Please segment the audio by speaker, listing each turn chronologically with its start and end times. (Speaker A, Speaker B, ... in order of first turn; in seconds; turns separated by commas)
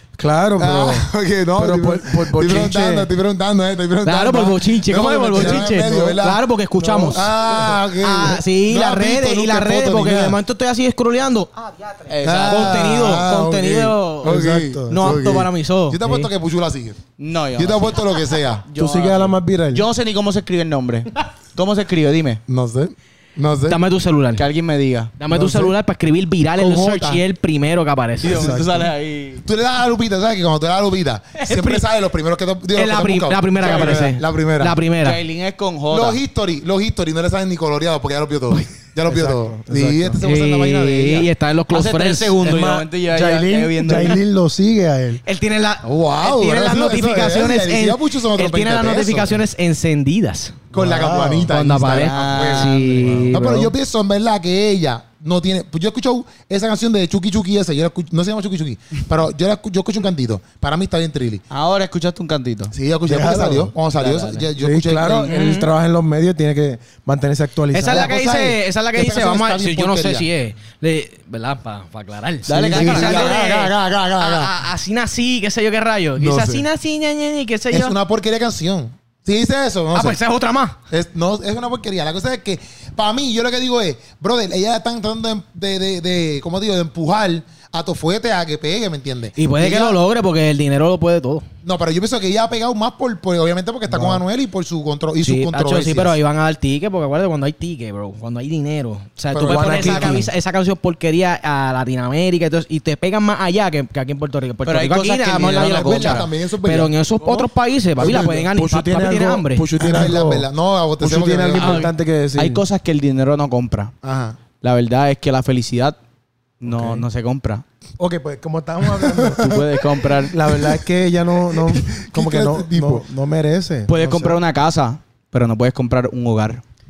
Speaker A: 0.2-3.1, Speaker B: 0.6-10.4, Speaker C: 4.0-16.3, Speaker A: 5.3-6.2, Speaker A: 6.8-7.6, Speaker D: 12.1-13.1, Speaker B: 12.2-17.0, Speaker A: 14.2-15.3, Speaker D: 17.2-22.4, Speaker B: 17.6-18.6, Speaker A: 18.7-19.9, Speaker B: 22.5-23.8, Speaker C: 23.7-24.4, Speaker D: 24.4-25.1, Speaker C: 25.2-28.6, Speaker A: 25.3-25.7, Speaker B: 26.6-27.2, Speaker D: 28.2-29.4, Speaker A: 28.3-28.9, Speaker B: 29.4-34.8, Speaker C: 31.4-31.8, Speaker C: 32.7-35.2, Speaker D: 33.6-34.1, Speaker D: 35.0-36.2, Speaker B: 35.9-41.3, Speaker A: 39.0-40.2, Speaker C: 40.2-42.4, Speaker D: 41.7-44.2, Speaker A: 42.4-45.2, Speaker C: 45.2-50.6, Speaker B: 45.8-49.3, Speaker A: 50.7-51.5, Speaker B: 50.7-61.4, Speaker C: 51.5-53.7, Speaker D: 52.0-53.2, Speaker A: 52.9-53.6, Speaker D: 61.5-62.7, Speaker B: 62.7-65.3, Speaker A: 63.0-63.7, Speaker D: 63.9-64.5, Speaker A: 64.6-68.1, Speaker C: 65.3-65.7, Speaker C: 67.7-78.0, Speaker B: 67.8-70.3, Speaker D: 72.5-73.7, Speaker B: 72.5-74.5, Speaker B: 76.2-76.7, Speaker B: 77.7-80.2, Speaker C: 79.9-80.8, Speaker B: 80.9-90.0, Speaker C: 89.4-91.5, Speaker B: 91.6-96.2, Speaker A: 93.9-94.2, Speaker C: 95.2-109.7, Speaker B: 99.3-100.2, Speaker D: 99.5-100.2, Speaker A: 99.5-100.3, Speaker D: 104.6-106.3, Speaker B: 105.5-106.9, Speaker A: 108.0-110.5, Speaker B: 109.8-111.9, Speaker A: 111.0-112.6, Speaker D: 111.5-113.9, Speaker B: 114.0-114.4, Speaker D: 114.6-116.0, Speaker D: 116.6-117.6, Speaker A: 116.7-117.0, Speaker A: 118.0-124.4, Speaker D: 119.4-120.8, Speaker B: 121.9-123.0, Speaker D: 123.9-126.6